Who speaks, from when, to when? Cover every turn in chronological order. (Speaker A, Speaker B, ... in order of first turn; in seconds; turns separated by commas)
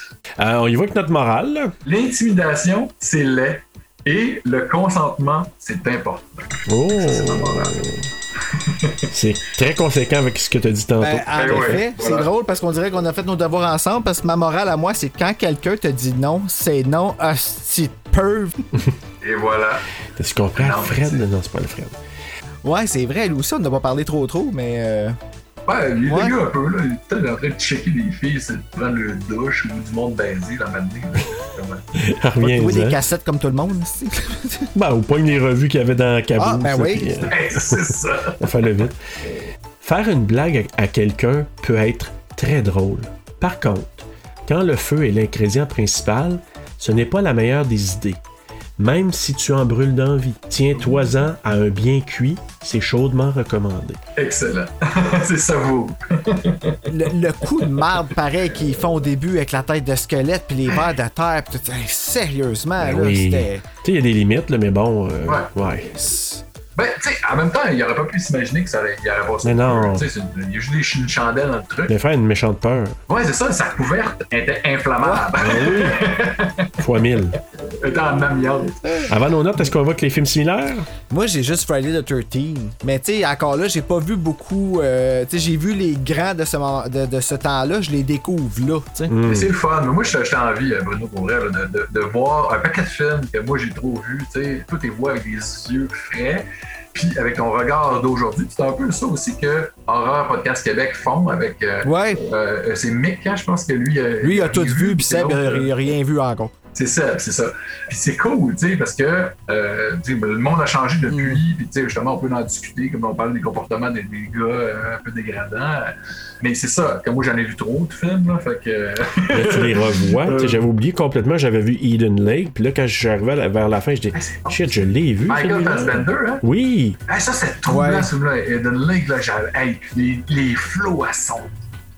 Speaker A: 0.4-1.7, Speaker B: 1.8-7.8, Speaker A: 6.7-8.1, Speaker B: 8.5-9.1, Speaker A: 9.1-11.8, Speaker C: 11.0-18.6, Speaker B: 11.3-12.3, Speaker B: 19.2-19.8, Speaker A: 20.1-22.0, Speaker B: 20.5-21.2, Speaker C: 22.6-25.2, Speaker B: 25.7-31.8, Speaker C: 26.1-26.3, Speaker A: 32.0-33.0, Speaker C: 32.4-34.7, Speaker A: 34.7-37.8, Speaker C: 36.4-37.3, Speaker B: 37.3-38.5, Speaker A: 38.4-39.0, Speaker A: 39.8-48.2, Speaker A: 48.8-54.0, Speaker B: 54.1-56.9, Speaker C: 56.9-63.6, Speaker A: 62.8-65.9, Speaker C: 66.0-66.4, Speaker B: 66.8-71.9, Speaker A: 69.4-70.1, Speaker A: 71.9-73.0, Speaker B: 73.1-76.8, Speaker C: 75.0-75.3, Speaker A: 75.3-76.0, Speaker A: 76.8-77.4, Speaker B: 77.8-79.0, Speaker A: 79.1-80.9, Speaker C: 81.1-89.1, Speaker A: 89.1-89.5, Speaker B: 89.2-105.7, Speaker C: 101.8-102.2, Speaker C: 104.2-106.5, Speaker B: 106.7-120.6, Speaker C: 111.1-111.4, Speaker A: 119.3-127.0, Speaker B: 124.1-126.4, Speaker B: 127.1-131.6, Speaker C: 127.7-128.1